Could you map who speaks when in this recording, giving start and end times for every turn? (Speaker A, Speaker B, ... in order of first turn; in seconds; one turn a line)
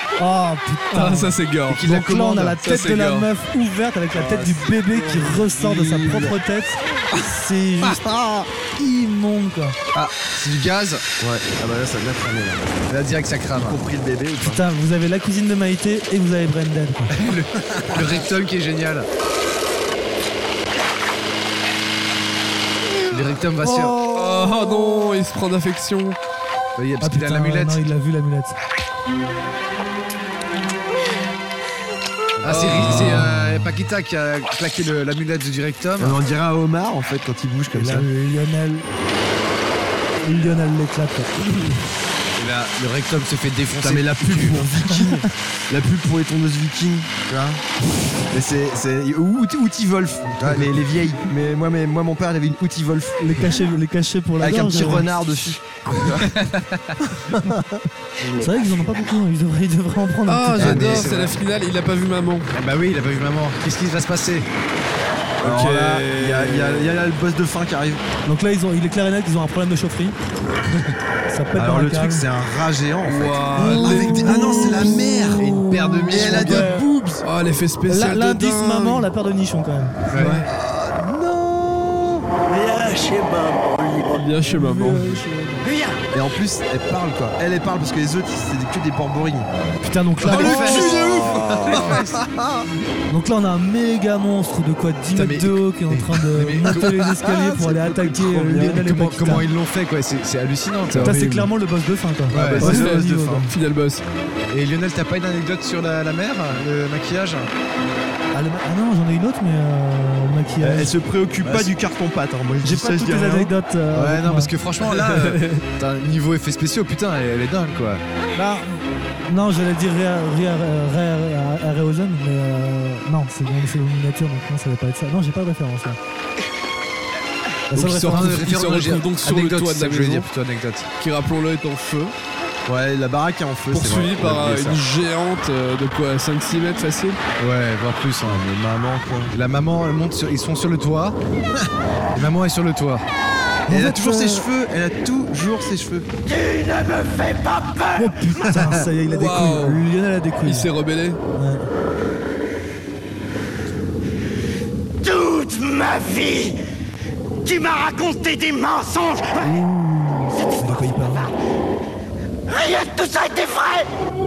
Speaker A: 0.2-8.0
Speaker B: 0.9-1.9
Speaker C: 1.7-2.6
Speaker B: 2.6-3.3
Speaker B: 4.7-6.4
Speaker D: 7.8-8.5
Speaker A: 8.8-9.8
Speaker C: 9.9-11.0
Speaker D: 11.2-12.8
Speaker C: 12.9-13.8
Speaker D: 13.5-14.6
Speaker A: 14.4-17.1
Speaker C: 17.1-19.1
Speaker D: 17.7-18.3
Speaker C: 23.1-24.0
Speaker B: 23.6-26.2
Speaker C: 26.8-27.9
Speaker A: 27.0-28.6
Speaker C: 32.4-36.2
Speaker B: 32.5-33.3
Speaker D: 36.0-38.1
Speaker A: 37.7-38.9
Speaker A: 40.2-41.7
Speaker C: 42.4-44.6
Speaker D: 43.8-47.6
Speaker A: 44.8-45.2
Speaker D: 48.3-53.4
Speaker A: 53.2-55.5
Speaker D: 54.4-56.3
Speaker C: 56.2-56.9
Speaker D: 57.3-57.8
Speaker A: 58.4-61.0
Speaker B: 60.3-62.5
Speaker C: 60.6-61.4
Speaker C: 62.5-64.5
Speaker B: 65.4-66.9
Speaker D: 65.4-68.0
Speaker A: 68.3-70.2
Speaker A: 71.3-72.3
Speaker D: 71.6-75.5
Speaker B: 73.1-79.1
Speaker A: 73.5-74.3
Speaker C: 75.4-77.0
Speaker D: 76.1-76.9
Speaker A: 77.9-80.4
Speaker C: 80.1-80.4
Speaker B: 80.2-80.5
Speaker D: 80.5-82.3
Speaker B: 84.1-85.2
Speaker A: 84.4-85.7
Speaker D: 86.1-89.5
Speaker A: 89.8-91.2
Speaker C: 90.2-92.1
Speaker D: 90.3-92.7
Speaker A: 93.1-99.5
Speaker C: 95.1-97.1
Speaker D: 97.2-98.8
Speaker C: 98.4-101.1
Speaker B: 100.9-101.5
Speaker A: 101.0-103.5
Speaker D: 102.3-103.5
Speaker C: 102.3-102.8
Speaker B: 102.6-104.0
Speaker C: 104.5-107.5
Speaker A: 108.3-111.0
Speaker D: 110.6-113.5
Speaker A: 112.6-114.5
Speaker C: 113.9-118.0
Speaker B: 115.0-115.6
Speaker A: 118.4-126.0
Speaker A: 127.7-128.4
Speaker B: 127.7-130.3
Speaker C: 128.1-130.9
Speaker B: 131.0-132.1
Speaker D: 132.7-134.8
Speaker B: 133.7-137.2
Speaker C: 137.4-138.4
Speaker D: 138.2-139.3
Speaker C: 139.3-141.2
Speaker C: 142.1-143.1
Speaker A: 143.7-144.5
Speaker D: 143.7-146.1
Speaker E: 146.3-148.1
Speaker A: 147.9-150.7
Speaker B: 149.0-149.9
Speaker B: 150.4-151.2
Speaker A: 151.4-151.7
Speaker E: 155.0-156.6
Speaker E: 157.4-159.5
Speaker A: 159.4-161.3
Speaker E: 160.3-161.3
Speaker E: 162.5-163.9